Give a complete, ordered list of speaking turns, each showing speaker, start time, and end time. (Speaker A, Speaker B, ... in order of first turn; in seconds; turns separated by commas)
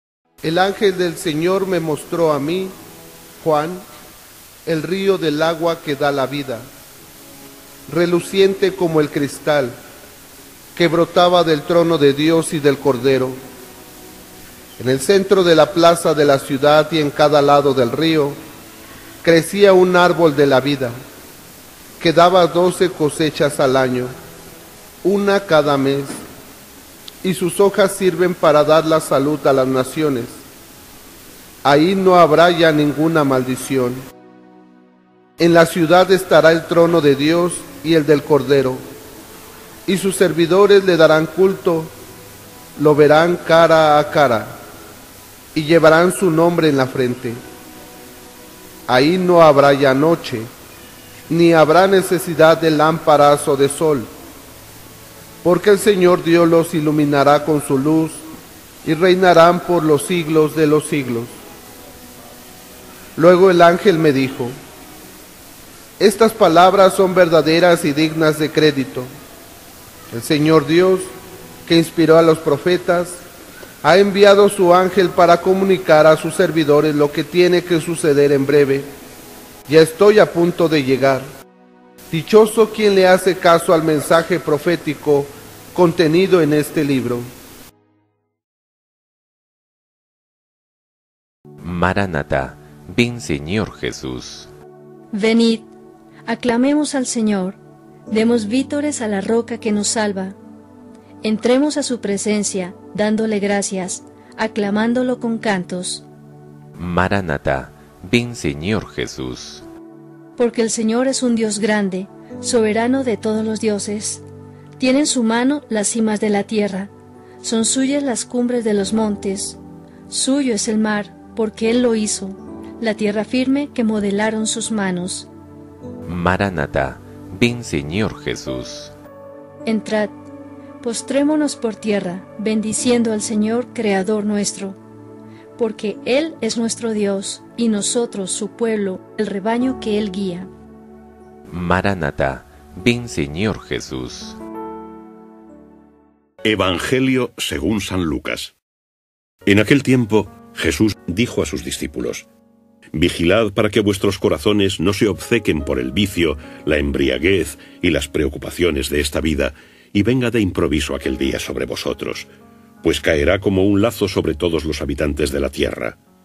Speaker A: 0.4-2.7, Speaker A: 3.4-3.8, Speaker A: 4.7-6.7, Speaker A: 7.9-9.8, Speaker A: 10.7-13.4, Speaker A: 14.8-18.4, Speaker A: 19.2-20.9, Speaker A: 22.0-24.1, Speaker A: 25.0-26.2, Speaker A: 27.2-30.4, Speaker A: 31.6-34.0, Speaker A: 35.4-38.8, Speaker A: 39.9-41.9, Speaker A: 42.8-44.5, Speaker A: 45.5-47.4, Speaker A: 48.9-50.5, Speaker A: 51.3-54.1, Speaker A: 55.4-58.2, Speaker A: 58.8-61.3, Speaker A: 63.1-64.5, Speaker A: 66.0-69.1, Speaker A: 70.1-71.1, Speaker A: 71.7-73.2, Speaker A: 73.8-78.9, Speaker A: 79.7-81.3, Speaker A: 82.1-87.3, Speaker B: 91.6-94.5, Speaker C: 95.1-95.7, Speaker C: 96.2-97.6, Speaker C: 98.1-100.4, Speaker C: 101.2-106.0, Speaker B: 106.8-109.6, Speaker C: 110.4-114.2, Speaker C: 114.8-116.9, Speaker C: 117.4-125.3, Speaker B: 126.0-128.9, Speaker C: 129.6-130.1, Speaker C: 130.8-134.8, Speaker C: 135.6-140.5, Speaker B: 141.5-144.4, Speaker D: 146.4-148.5, Speaker D: 149.4-152.2, Speaker D: 152.9-162.3, Speaker D: 162.8-166.0